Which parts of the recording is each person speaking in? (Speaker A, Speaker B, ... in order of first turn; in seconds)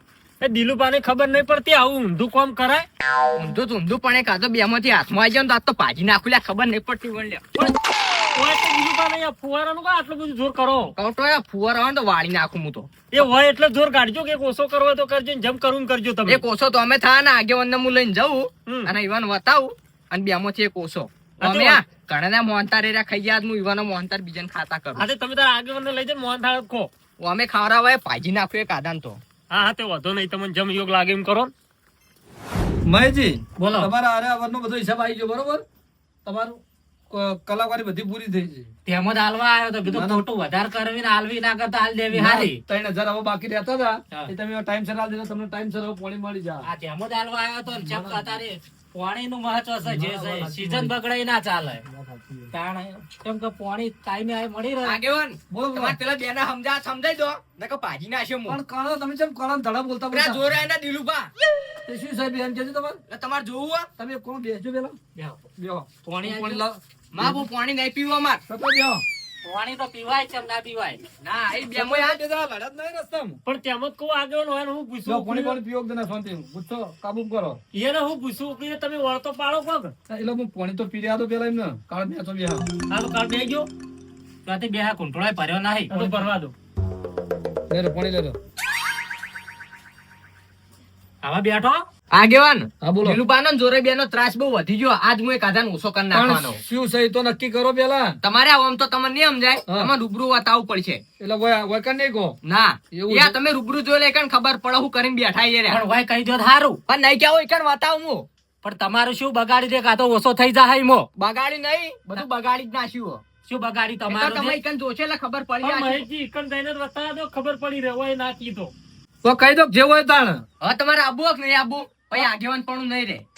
Speaker A: 0.4-2.9, 8.3-10.9, 13.1-16.4, 18.7-18.9, 21.4-21.8, 24.9-26.9, 29.5-31.5, 73.5-75.5, 77.7-79.9, 82.9-83.2, 85.9-86.5, 115.6-118.7
Speaker B: 3.4-7.5, 11.0-13.0, 16.3-25.1, 27.2-29.2, 54.8-58.6, 60.1-61.3, 63.1-63.9, 67.1-68.4, 71.2-72.2, 92.1-96.6, 98.2-101.0, 102.4-105.8, 106.9-108.3, 111.2-113.2, 114.1-116.0, 120.6-123.2
Speaker C: 32.9-35.6, 36.2-38.7, 39.9-40.2, 42.1-46.6, 47.7-48.4, 49.8-50.9, 51.9-52.5, 55.5-56.0, 58.5-60.6, 61.9-63.0, 64.0-65.0, 65.6-67.4, 68.5-69.0, 71.6-73.4, 75.0-77.6, 80.1-82.6, 87.7-88.4, 92.8-93.2, 96.1-98.2, 99.7-99.9, 101.2-102.3, 102.9-103.4, 119.2-120.4
Speaker D: 33.6-33.9, 38.9-42.6, 46.6-51.8, 52.5-55.0, 66.0-66.6, 69.4-71.0, 83.1-83.7, 84.4-86.2, 91.2-91.9, 105.7-106.8, 108.6-111.1, 113.5-114.6